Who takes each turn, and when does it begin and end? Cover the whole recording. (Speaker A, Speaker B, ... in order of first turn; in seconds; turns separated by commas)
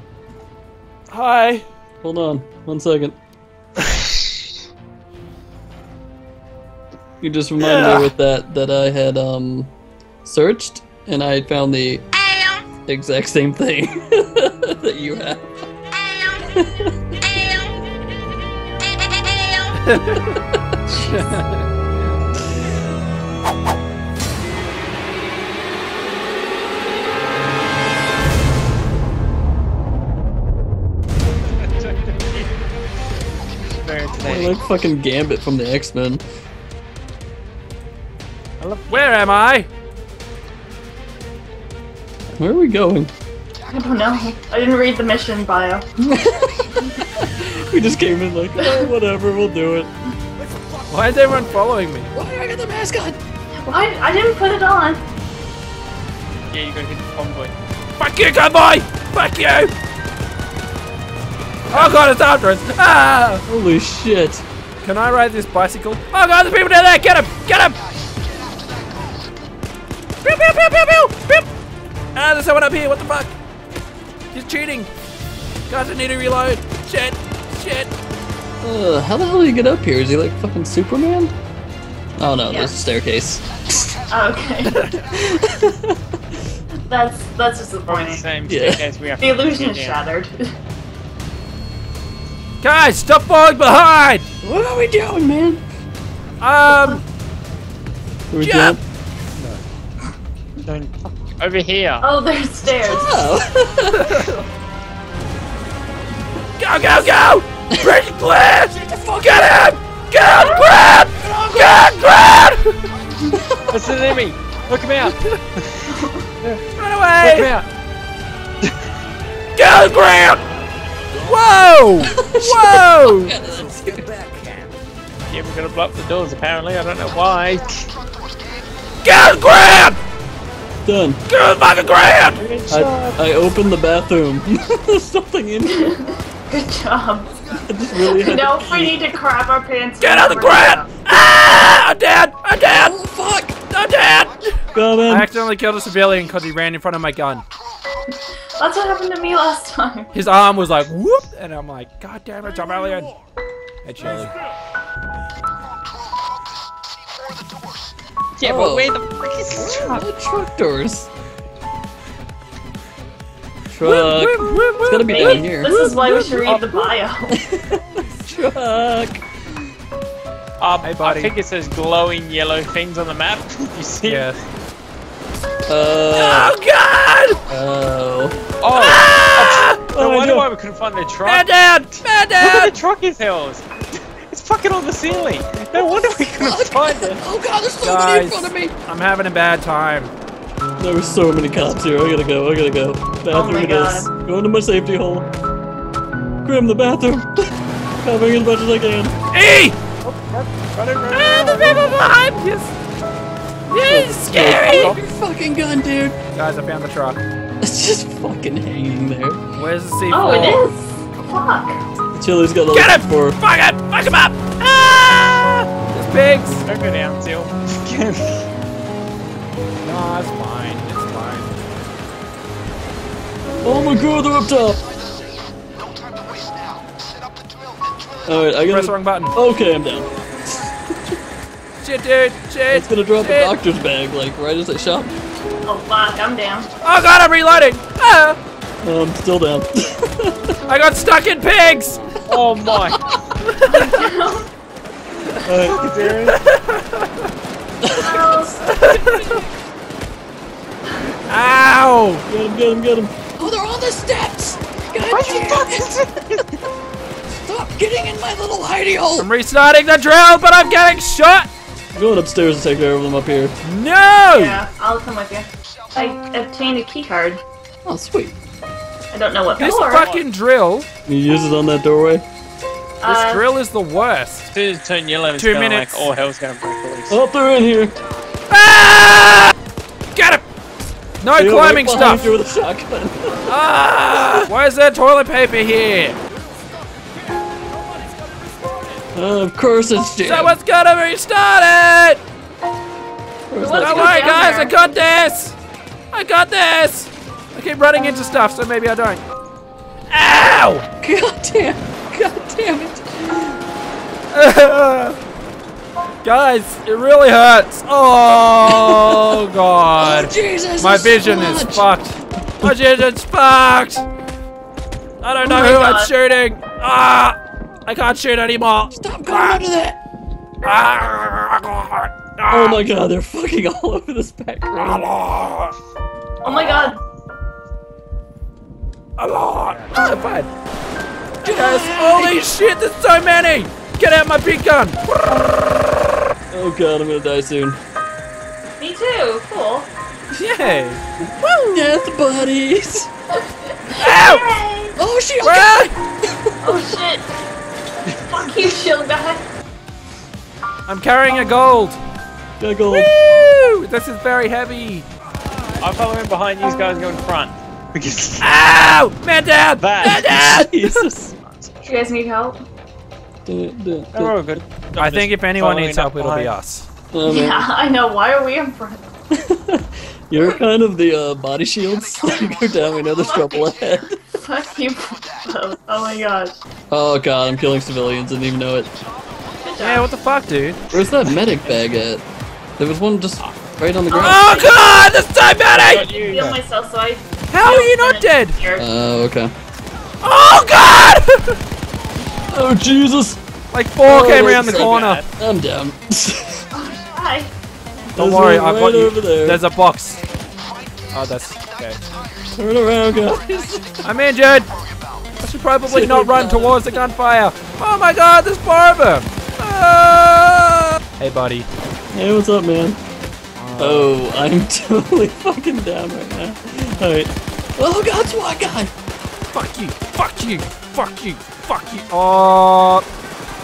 Speaker A: 1.1-1.7, Speaker B: 2.0-3.2, Speaker B: 7.2-9.7, Speaker A: 7.6-8.1, Speaker B: 10.2-12.1, Speaker B: 12.8-15.5, Speaker B: 16.3-17.0, Speaker A: 19.9-20.2, Speaker C: 20.9-21.2, Speaker A: 21.1-21.5, Speaker D: 31.5-32.5, Speaker D: 33.7-34.6, Speaker B: 34.2-36.2, Speaker D: 38.6-39.3, Speaker A: 38.9-39.7, Speaker B: 42.4-43.1, Speaker C: 43.7-45.9, Speaker B: 46.0-49.9, Speaker C: 48.6-48.9, Speaker A: 50.9-52.1, Speaker B: 52.1-53.2, Speaker C: 53.6-55.0, Speaker D: 56.5-57.5, Speaker A: 58.0-59.7, Speaker A: 61.7-63.4, Speaker B: 63.5-64.4, Speaker A: 64.8-67.8, Speaker A: 70.2-71.5, Speaker A: 72.2-73.3, Speaker A: 74.3-74.9, Speaker A: 75.7-77.9, Speaker B: 78.6-81.3, Speaker B: 82.2-84.0, Speaker C: 82.5-82.8, Speaker C: 84.1-84.9, Speaker B: 85.0-86.0, Speaker C: 86.9-88.2, Speaker D: 87.9-90.0, Speaker B: 88.5-88.8, Speaker C: 89.2-90.5, Speaker A: 92.6-94.3, Speaker B: 94.4-95.6, Speaker A: 96.4-97.0, Speaker C: 96.7-97.0, Speaker B: 98.3-98.8, Speaker A: 98.4-98.8, Speaker D: 100.7-102.1, Speaker C: 102.0-103.3, Speaker B: 102.8-104.3, Speaker A: 104.0-104.4, Speaker A: 106.6-112.8, Speaker C: 110.4-110.7, Speaker C: 111.2-111.9, Speaker B: 113.3-113.8, Speaker D: 113.7-116.6, Speaker C: 115.9-116.3, Speaker A: 116.8-117.5, Speaker D: 117.2-117.7, Speaker A: 119.6-120.4, Speaker A: 121.2-123.3, Speaker B: 122.0-124.3, Speaker D: 125.3-127.8, Speaker A: 129.0-130.0, Speaker B: 130.8-131.2, Speaker A: 131.3-132.4, Speaker D: 132.4-133.2, Speaker B: 132.7-135.9, Speaker C: 135.7-137.4, Speaker B: 137.5-139.0, Speaker C: 137.9-140.9, Speaker A: 140.0-143.0, Speaker B: 142.7-143.7, Speaker A: 143.7-147.4, Speaker B: 144.7-145.3, Speaker C: 148.6-150.1, Speaker A: 150.1-153.1, Speaker A: 153.8-154.3, Speaker D: 158.4-160.1, Speaker B: 158.4-159.0, Speaker B: 159.6-161.1, Speaker B: 163.7-166.4, Speaker A: 163.8-165.3, Speaker C: 165.0-167.4, Speaker D: 166.3-166.9, Speaker B: 167.5-169.2, Speaker D: 170.6-174.4, Speaker A: 170.8-171.3, Speaker A: 174.0-174.3, Speaker B: 175.7-176.5, Speaker A: 176.1-177.4, Speaker B: 177.5-178.4, Speaker D: 178.6-181.5, Speaker A: 178.8-179.9, Speaker B: 179.9-180.4, Speaker A: 181.2-182.7, Speaker D: 182.4-187.2, Speaker B: 186.3-188.7, Speaker A: 187.8-190.1, Speaker B: 190.8-195.2, Speaker D: 191.5-191.8, Speaker C: 193.3-194.1, Speaker B: 196.4-199.1, Speaker A: 199.3-199.8, Speaker D: 200.0-202.0, Speaker A: 201.1-202.7, Speaker A: 203.7-204.9, Speaker B: 203.9-206.2, Speaker D: 204.6-205.0, Speaker A: 206.3-207.2, Speaker B: 207.6-209.4, Speaker A: 209.6-210.7, Speaker C: 210.1-211.8, Speaker B: 212.2-213.4, Speaker A: 212.7-216.7, Speaker D: 216.7-218.5, Speaker A: 219.8-221.5, Speaker B: 223.6-224.8, Speaker B: 228.3-231.2, Speaker A: 228.6-229.3, Speaker A: 231.8-233.5, Speaker B: 232.7-235.1, Speaker C: 235.7-236.7, Speaker A: 236.8-238.4, Speaker B: 238.8-240.6, Speaker A: 240.7-242.0, Speaker D: 242.3-243.0, Speaker B: 242.9-243.2, Speaker A: 243.4-243.9, Speaker C: 243.7-244.5, Speaker B: 245.5-245.8, Speaker D: 245.6-246.4, Speaker A: 246.3-247.1, Speaker B: 247.8-248.2, Speaker C: 247.9-248.7, Speaker A: 248.6-249.4, Speaker A: 251.3-252.2, Speaker B: 252.3-255.8, Speaker D: 255.1-256.5, Speaker B: 257.4-259.3, Speaker A: 259.2-261.5, Speaker B: 261.9-263.5, Speaker A: 263.6-264.6, Speaker C: 264.3-267.4, Speaker B: 267.9-268.4, Speaker C: 269.1-270.1, Speaker A: 269.6-270.9, Speaker D: 270.0-270.3, Speaker B: 271.1-272.2, Speaker C: 273.0-273.5, Speaker A: 273.1-274.5, Speaker D: 274.5-277.2, Speaker A: 275.3-276.1, Speaker B: 277.1-277.9, Speaker A: 278.5-279.5, Speaker A: 280.1-280.4, Speaker A: 281.2-282.3, Speaker B: 281.4-283.4, Speaker A: 283.5-286.2, Speaker B: 289.1-290.6, Speaker A: 290.2-292.2, Speaker B: 293.5-294.4, Speaker C: 293.6-294.9, Speaker A: 293.8-295.6, Speaker A: 296.1-299.2, Speaker A: 300.1-300.9, Speaker B: 301.0-303.6, Speaker A: 304.3-305.2, Speaker A: 306.2-314.1, Speaker B: 308.7-309.4, Speaker B: 310.0-311.9, Speaker A: 315.2-319.6, Speaker C: 315.4-316.1, Speaker B: 318.9-320.0, Speaker A: 320.6-322.8, Speaker B: 322.5-325.1, Speaker A: 324.8-325.7, Speaker C: 326.4-327.0, Speaker A: 329.2-330.5, Speaker B: 331.4-332.5, Speaker A: 331.4-335.0, Speaker B: 336.5-337.8, Speaker C: 338.8-339.9, Speaker A: 340.3-341.0, Speaker B: 341.2-343.1, Speaker C: 343.7-345.0, Speaker A: 344.0-344.5, Speaker B: 345.0-346.9, Speaker A: 345.4-345.9, Speaker C: 346.6-347.3, Speaker C: 348.3-349.4, Speaker A: 350.9-352.0, Speaker B: 352.6-353.1, Speaker A: 352.9-355.1, Speaker D: 355.8-358.5, Speaker A: 358.4-360.7, Speaker D: 359.8-360.3, Speaker B: 360.0-361.3, Speaker D: 361.2-362.0, Speaker C: 361.9-362.6, Speaker B: 363.5-364.4, Speaker D: 364.1-366.6, Speaker A: 365.0-366.9, Speaker B: 367.1-367.6, Speaker C: 367.2-369.1, Speaker B: 369.4-374.1, Speaker C: 373.2-373.8, Speaker C: 374.3-376.5, Speaker B: 376.9-378.9, Speaker C: 379.6-380.1, Speaker A: 379.8-380.9, Speaker B: 380.9-382.2, Speaker B: 382.8-384.5, Speaker C: 384.1-384.8, Speaker A: 384.1-386.6, Speaker D: 385.7-386.6, Speaker C: 385.9-388.9, Speaker A: 387.5-388.6, Speaker B: 388.8-389.5, Speaker A: 390.2-391.6, Speaker B: 392.5-393.4, Speaker A: 393.7-395.2, Speaker B: 394.0-396.6, Speaker D: 394.3-395.2, Speaker C: 396.7-397.5, Speaker A: 398.1-400.2, Speaker B: 398.2-399.6, Speaker A: 401.1-402.0, Speaker B: 402.6-404.0, Speaker A: 404.0-404.7, Speaker A: 405.4-411.7, Speaker B: 405.9-406.8, Speaker B: 412.1-413.0, Speaker A: 413.6-414.1, Speaker B: 413.8-418.9, Speaker A: 419.5-423.0